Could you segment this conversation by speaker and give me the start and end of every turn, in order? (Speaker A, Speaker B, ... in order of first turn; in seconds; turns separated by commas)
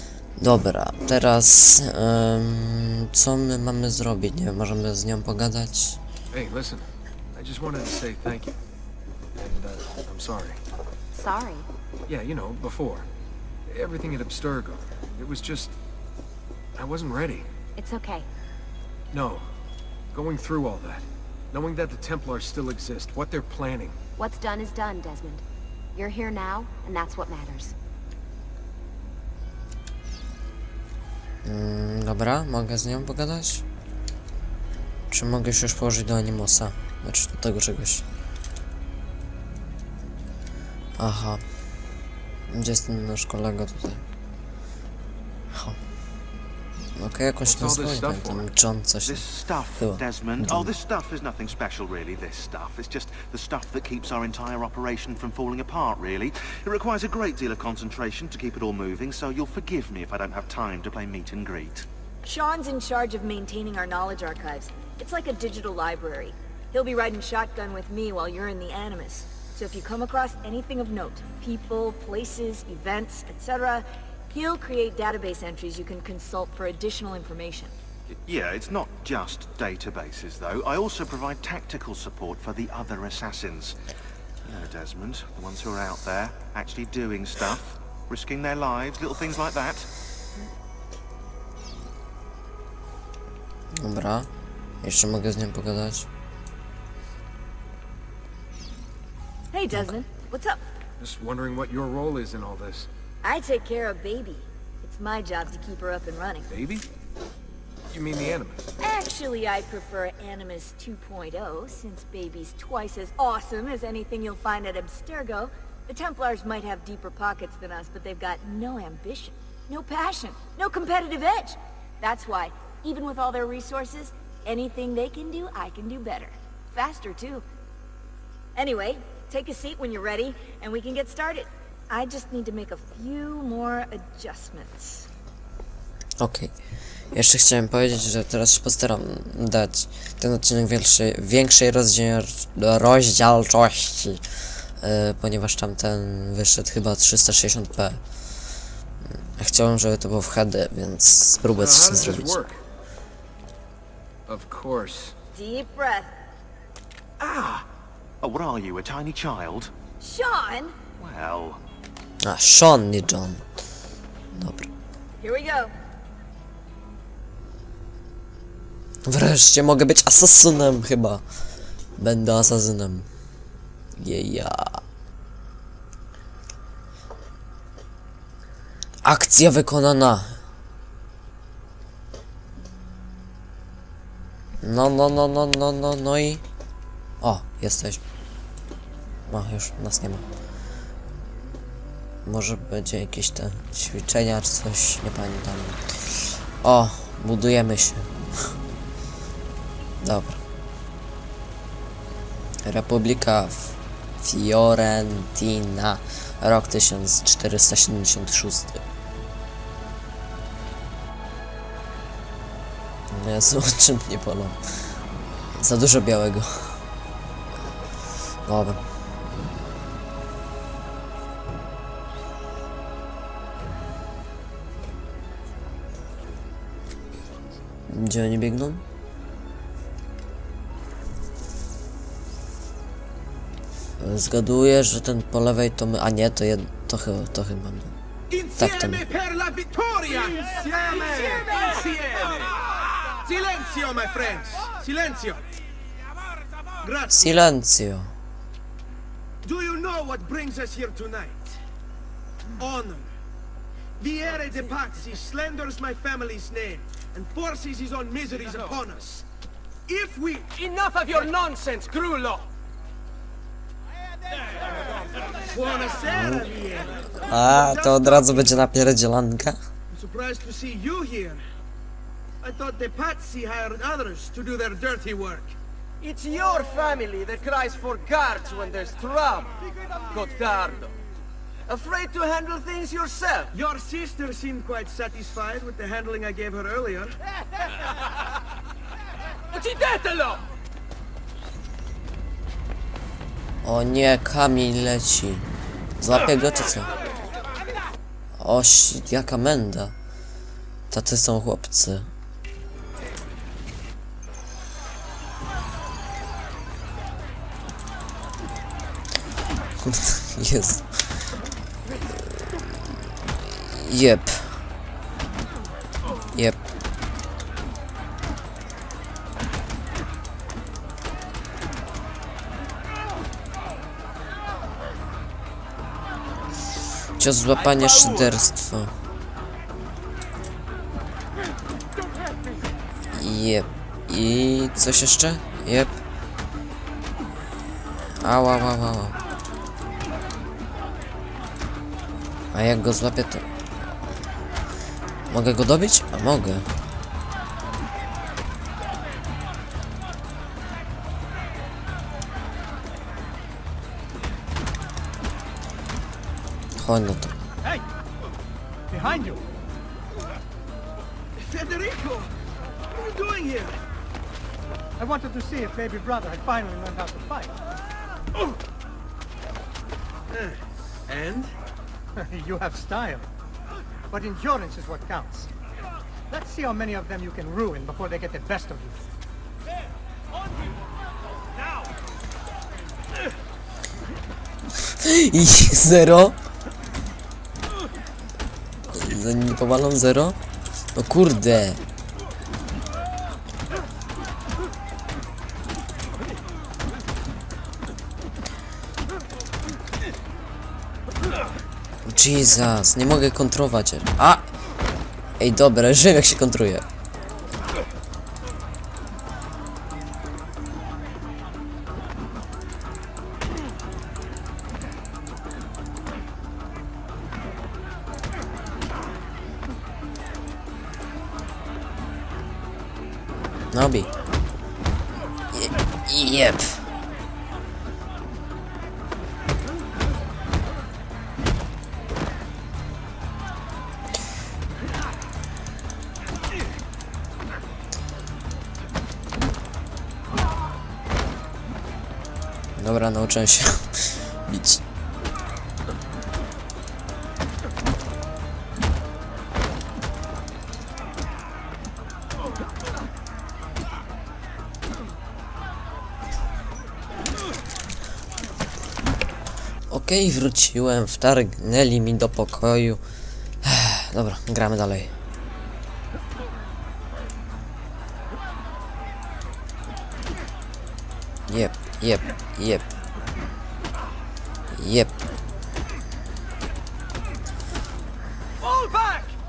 Speaker A: 0.4-6.0, Speaker B: 6.3-8.6, Speaker B: 9.3-10.6, Speaker C: 11.1-11.7, Speaker B: 12.1-13.1, Speaker B: 13.7-15.7, Speaker B: 16.8-17.5, Speaker C: 17.8-18.3, Speaker B: 19.1-19.4, Speaker B: 20.1-24.0, Speaker C: 24.2-25.4, Speaker C: 25.9-27.7, Speaker A: 31.4-33.6, Speaker A: 35.1-38.0, Speaker A: 41.0-41.4, Speaker A: 42.5-44.0, Speaker A: 45.5-45.8, Speaker A: 47.0-50.7, Speaker B: 47.5-48.4, Speaker D: 49.0-61.8, Speaker E: 62.2-77.7, Speaker D: 78.2-83.8, Speaker D: 84.5-89.9, Speaker A: 93.7-94.3, Speaker A: 94.8-96.1, Speaker E: 99.5-100.6, Speaker B: 101.0-102.9, Speaker E: 103.2-106.5, Speaker B: 106.5-106.9, Speaker B: 107.9-108.7, Speaker E: 108.8-127.4, Speaker E: 128.5-135.1, Speaker A: 136.2-136.5, Speaker A: 137.1-144.2, Speaker A: 144.8-148.0, Speaker A: 149.1-152.4, Speaker B: 151.6-152.6, Speaker B: 154.3-155.1, Speaker E: 155.3-156.1, Speaker B: 157.2-157.6, Speaker D: 158.2-159.7, Speaker E: 160.0-160.8, Speaker D: 161.0-161.6, Speaker A: 162.2-163.4, Speaker A: 164.3-164.7, Speaker E: 165.2-165.7, Speaker A: 169.1-171.2, Speaker A: 172.0-173.1, Speaker A: 174.0-174.8, Speaker A: 179.0-180.4, Speaker A: 184.6-186.4, Speaker A: 187.2-188.0, Speaker A: 189.3-190.2, Speaker A: 192.2-198.2, Speaker A: 200.0-200.4, Speaker A: 202.7-208.8, Speaker A: 213.1-215.0, Speaker A: 215.5-216.8, Speaker A: 218.4-218.8, Speaker A: 227.9-228.8, Speaker A: 234.0-238.0, Speaker F: 238.3-242.5, Speaker A: 238.6-239.1, Speaker E: 240.8-242.4, Speaker F: 243.2-245.4, Speaker F: 246.8-247.3, Speaker A: 247.1-248.1, Speaker F: 249.4-251.6, Speaker F: 252.6-253.1, Speaker F: 254.0-259.2, Speaker F: 259.9-261.4, Speaker F: 265.5-268.6, Speaker A: 266.1-266.5, Speaker A: 267.3-269.6, Speaker F: 269.9-271.4, Speaker F: 272.4-275.5, Speaker G: 276.0-279.5, Speaker G: 280.1-280.9, Speaker G: 281.7-283.6, Speaker F: 283.5-287.1, Speaker A: 293.6-295.5, Speaker A: 296.0-296.9, Speaker A: 298.4-299.9, Speaker A: 300.9-302.1, Speaker A: 309.8-311.3, Speaker A: 313.6-314.6, Speaker A: 316.3-316.6, Speaker A: 327.2-328.9, Speaker A: 333.1-336.0, Speaker A: 338.2-339.2, Speaker A: 342.5-343.4, Speaker A: 345.3-346.7, Speaker A: 356.8-357.3, Speaker H: 358.9-359.4, Speaker F: 361.4-362.3, Speaker F: 362.9-363.8, Speaker H: 365.0-367.5, Speaker F: 371.1-371.5, Speaker H: 372.2-373.3, Speaker H: 374.1-375.5, Speaker H: 376.3-379.0, Speaker A: 385.0-386.4, Speaker A: 388.9-390.4, Speaker A: 390.9-391.8, Speaker A: 402.1-404.5, Speaker A: 405.4-406.8, Speaker A: 423.7-424.1, Speaker A: 425.5-426.9, Speaker A: 442.8-444.8, Speaker A: 459.9-463.0, Speaker A: 463.6-465.1, Speaker A: 471.5-472.9, Speaker A: 474.7-475.2, Speaker F: 478.6-479.2